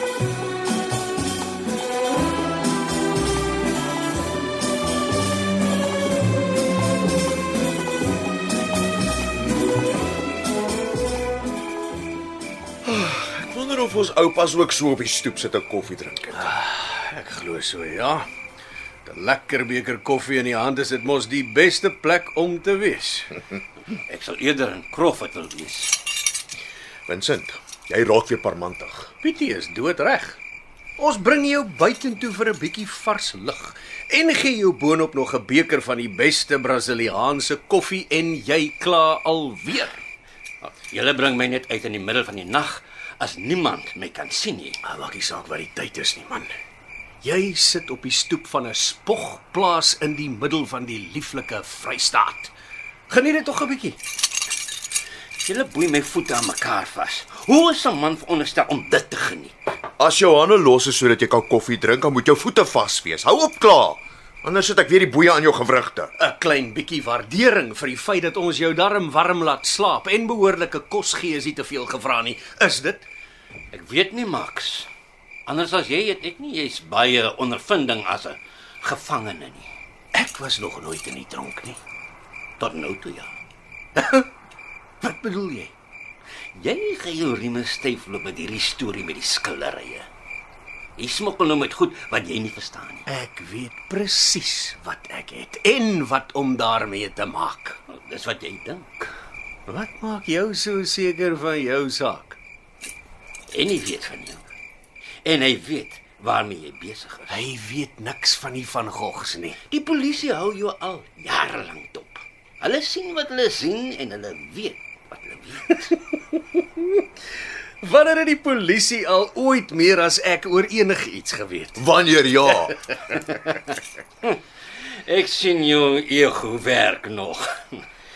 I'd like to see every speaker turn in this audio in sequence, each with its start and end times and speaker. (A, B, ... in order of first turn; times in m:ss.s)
0:12.8-0:16.5 A
0:16.4-0:18.3 B
0:19.0-0:23.3 B
0:23.9-0:25.9 C
0:27.1-0:29.1 A
0:29.2-0:30.4 B
0:31.0-0:40.0 B
0:40.6-0:44.8 C
0:44.8-0:46.5 B
0:47.2-0:52.5 B
0:53.1-0:54.0 B
0:55.4-0:59.5 C
1:00.0-1:06.1 A
1:06.2-1:13.1 B
1:13.7-1:14.9 C
1:15.4-1:19.7 C
1:20.1-1:21.8 B
1:22.6-1:23.3 C
1:24.0-1:24.3 B
1:25.0-1:25.7 B
1:26.5-1:30.1 C
1:31.0-1:33.0 C
1:33.0-1:37.8 B
1:37.9-1:38.9 C
1:39.6-1:42.4 B
1:43.5-1:44.4 C
1:45.2-1:47.4 C
1:47.3-1:49.6 B
1:49.7-1:55.9 C
1:55.9-1:57.0 B
1:57.8-2:01.8 B
2:01.8-2:02.8 A
2:05.0-2:07.8 C